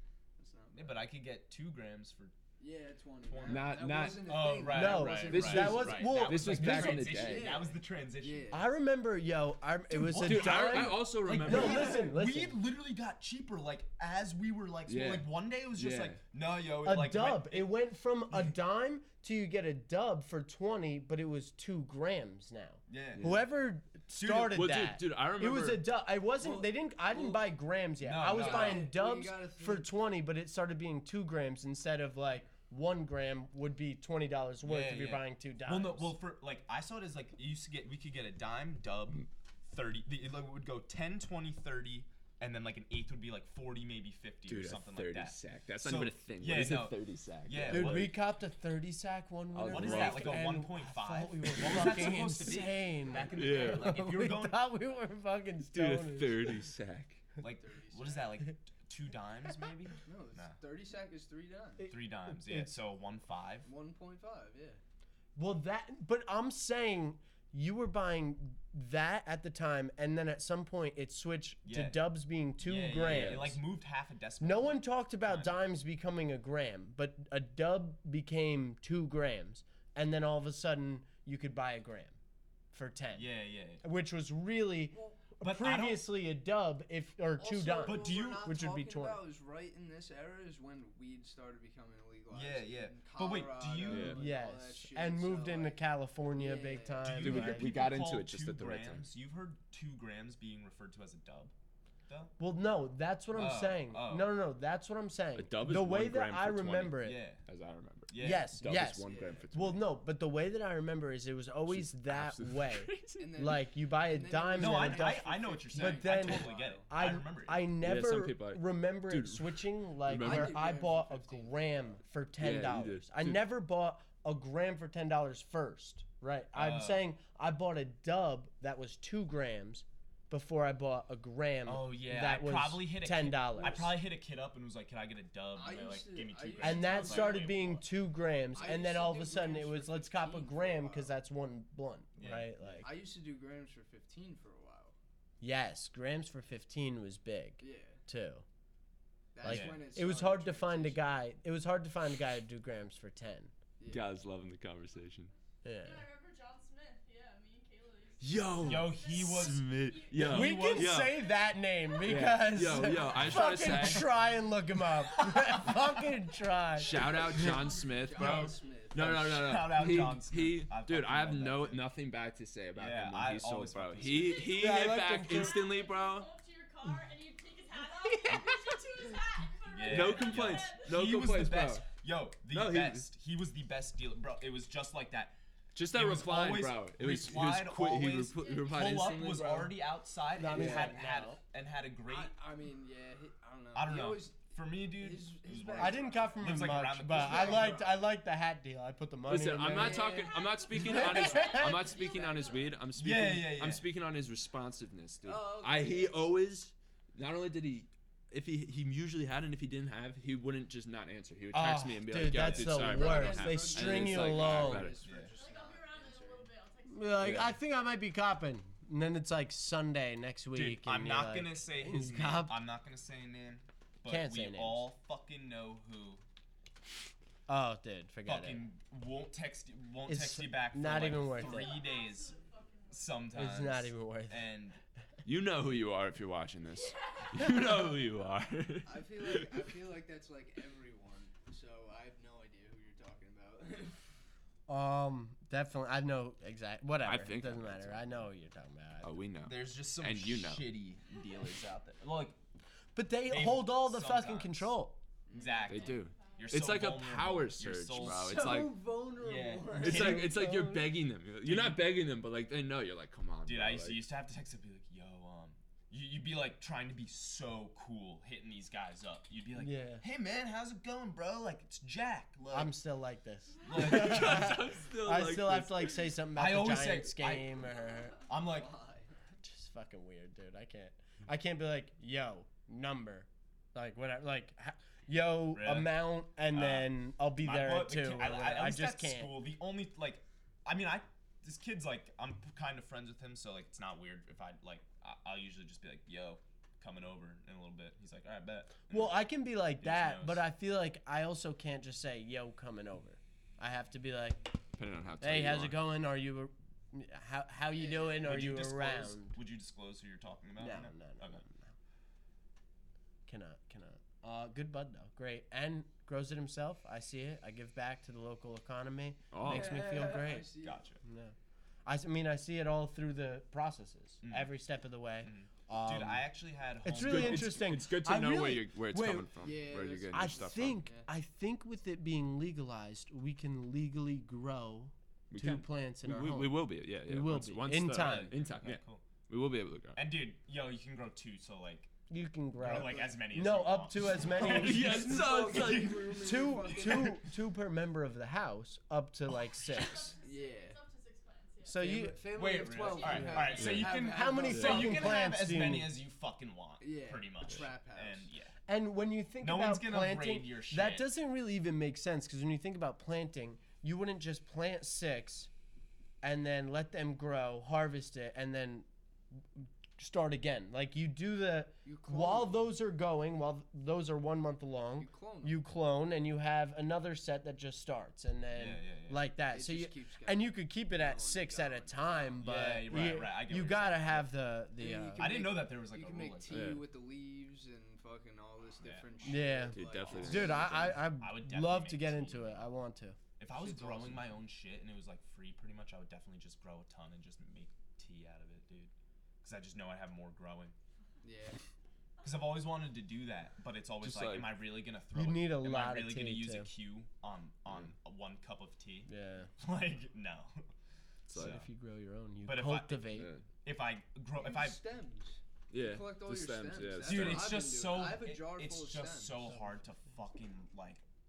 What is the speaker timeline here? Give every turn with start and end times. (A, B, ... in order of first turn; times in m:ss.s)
0:00.4-0:01.1 A
0:00.7-0:02.4 B
0:02.6-0:06.0 A
0:03.2-0:08.5 B
0:03.4-0:04.7 C
0:04.7-0:07.2 D
0:05.3-0:07.6 C
0:06.8-0:08.7 A
0:08.5-0:12.6 D
0:09.9-0:17.7 B
0:10.2-0:12.0 C
0:14.8-0:16.2 C
0:16.8-0:36.2 D
0:22.9-0:23.5 B
0:23.1-0:23.4 C
0:24.2-0:24.6 B
0:24.5-0:25.9 C
0:26.4-0:27.5 A
0:28.0-0:29.0 B
0:28.3-0:29.9 A
0:34.6-0:48.2 B
0:44.4-0:48.1 C
0:47.7-0:56.7 D
0:49.5-0:50.6 C
0:49.6-0:54.7 B
0:53.3-0:54.1 C
0:55.7-0:57.2 C
0:57.4-1:00.6 B
0:57.6-0:58.4 A
1:00.0-1:01.9 A
1:01.8-1:02.7 D
1:01.9-1:03.7 B
1:03.6-1:04.8 A
1:05.4-1:13.6 D
1:11.6-1:12.0 B
1:12.6-1:15.6 B
1:13.0-1:13.5 C
1:14.4-1:22.2 D
1:22.7-1:29.2 D
1:23.1-1:23.8 B
1:24.9-1:25.3 A
1:25.4-1:26.0 B
1:27.4-1:35.8 A
1:27.8-1:28.5 B
1:32.3-1:34.2 B
1:33.8-1:34.2 C
1:34.1-1:37.8 D
1:36.3-1:37.5 A
1:37.0-1:41.5 B
1:37.2-1:39.1 C
1:42.1-1:42.4 B
1:42.4-1:47.2 D
1:43.3-1:44.3 B
1:45.3-1:49.8 C
1:47.0-1:47.4 B
1:48.1-1:48.6 B
1:48.2-2:13.9 D
1:49.0-1:49.6 A
1:51.7-1:53.3 C
1:53.2-1:56.9 A
1:54.6-1:57.7 B
1:57.8-2:00.6 C
2:00.1-2:02.0 A
2:02.4-2:03.5 C
2:06.5-2:07.0 B
2:11.6-2:17.8 B
2:13.6-2:13.9 A
2:15.5-2:17.8 A
2:16.6-2:22.9 D
2:18.5-2:21.1 A
2:22.2-2:22.9 B
2:22.8-2:25.0 A
2:25.4-2:28.4 D
2:27.6-2:28.0 A
2:29.3-2:31.0 A
2:29.4-2:33.5 D
2:29.4-2:29.8 B
2:33.8-2:34.1 A
2:33.9-2:35.3 C
2:35.6-2:36.0 D
2:35.8-2:43.3 E
2:38.2-2:41.3 C
2:38.6-2:41.0 B
2:40.2-2:47.2 D
2:42.0-2:44.1 C
2:45.2-2:45.6 B
2:46.7-2:56.3 C
2:47.3-2:51.8 B
2:47.8-2:49.3 A
2:52.7-2:54.6 B
2:54.0-3:01.0 E
2:54.5-2:55.6 D
2:58.1-2:59.1 D
2:59.7-3:05.3 B
2:59.9-3:01.9 C
3:02.5-3:03.1 C
3:05.7-3:09.8 C
3:05.9-3:12.3 B
3:08.3-3:09.5 E
3:10.4-3:11.4 D
3:10.5-3:11.0 C
3:12.0-3:18.1 A
3:13.7-3:17.8 B
3:15.8-3:21.8 D
3:19.3-3:35.0 C
3:19.7-3:22.8 E
3:21.9-3:22.7 A
3:22.9-3:23.8 B
3:25.2-3:26.3 A
3:31.5-3:35.0 D
3:32.4-3:32.9 B
3:32.7-3:36.5 A
3:35.0-3:35.4 B
3:35.2-3:37.4 E
3:36.9-3:42.6 D
3:37.2-3:37.6 C
3:40.5-3:46.2 B
3:44.0-3:44.9 D
3:47.5-3:48.6 D
3:48.2-3:52.4 B
3:50.1-3:51.8 D
3:51.2-3:53.4 E
3:52.9-3:54.8 B
3:53.3-3:54.5 D
3:55.2-3:59.6 C
3:56.7-3:58.0 E
3:58.8-4:04.1 A
4:04.7-4:09.2 D
4:07.0-4:08.3 C
4:09.0-4:10.7 C
4:09.4-4:12.4 B
4:12.9-4:15.0 D
4:13.3-4:14.7 B
4:15.3-4:15.7 A
4:15.3-4:16.7 E
4:15.3-4:20.4 B
4:15.7-4:18.8 C
4:17.9-4:20.1 A
4:19.8-4:24.0 C
4:19.8-4:21.0 D
4:21.4-4:22.0 B
4:23.4-4:32.8 B
4:29.5-4:30.0 D
4:32.5-4:38.2 D
4:33.6-4:34.8 B
4:33.7-4:36.1 C
4:36.3-4:38.8 B
4:38.4-4:39.1 A
4:39.4-4:49.3 D
4:45.5-4:46.0 B
4:46.5-5:00.5 B
4:58.9-5:04.5 D
5:04.7-5:05.8 C
5:05.2-5:09.4 D
5:07.7-5:08.3 A
5:08.2-5:11.4 B
5:10.6-5:11.7 D
5:13.2-5:20.5 D
5:19.3-5:19.8 C
5:19.4-5:20.8 A
5:20.6-5:21.0 B
5:21.0-5:21.3 D
5:21.8-5:38.4 D
5:24.2-5:24.5 B
5:25.2-5:27.6 B
5:27.0-5:30.8 C
5:29.4-5:31.1 A
5:35.3-5:40.0 C
5:37.9-5:39.0 B
5:39.9-5:41.9 B
5:42.1-5:44.9 D
5:42.6-5:47.1 B
5:42.6-5:43.2 A
5:44.4-5:46.3 C
5:44.4-5:47.2 A
5:46.2-5:50.1 D
5:49.7-5:51.8 E
5:50.2-5:50.8 A
5:51.6-5:52.2 D
5:51.7-5:55.3 A
5:52.3-5:58.5 B
5:52.7-5:54.2 E
5:53.0-5:53.4 D
5:53.6-5:54.0 C
5:53.9-5:56.0 D
5:54.5-5:55.0 C
5:56.8-5:58.3 A
5:58.7-6:05.5 D
5:59.4-6:01.1 B
6:06.2-6:25.3 D
6:11.8-6:12.7 A
6:15.0-6:15.6 A
6:18.5-6:19.3 B
6:19.5-6:23.0 A
6:22.4-6:24.3 B
6:24.8-6:30.9 A
6:25.2-6:26.8 B
6:26.5-6:26.9 C
6:28.8-6:29.2 B
6:29.2-6:33.2 D
6:29.7-6:31.0 C
6:30.1-6:32.7 B
6:33.4-6:38.9 B
6:33.5-6:34.2 A
6:39.4-6:40.7 B
6:41.2-6:41.6 A
6:42.2-6:50.7 B
6:44.0-6:44.5 C
6:45.1-6:46.7 D
6:49.1-6:49.5 D
6:51.3-6:51.6 C
6:51.3-6:51.6 B
6:51.3-6:53.3 D
6:52.4-6:54.8 B
6:53.1-6:53.4 C
6:54.4-6:59.4 A
6:55.7-6:57.6 C
6:57.0-7:01.0 B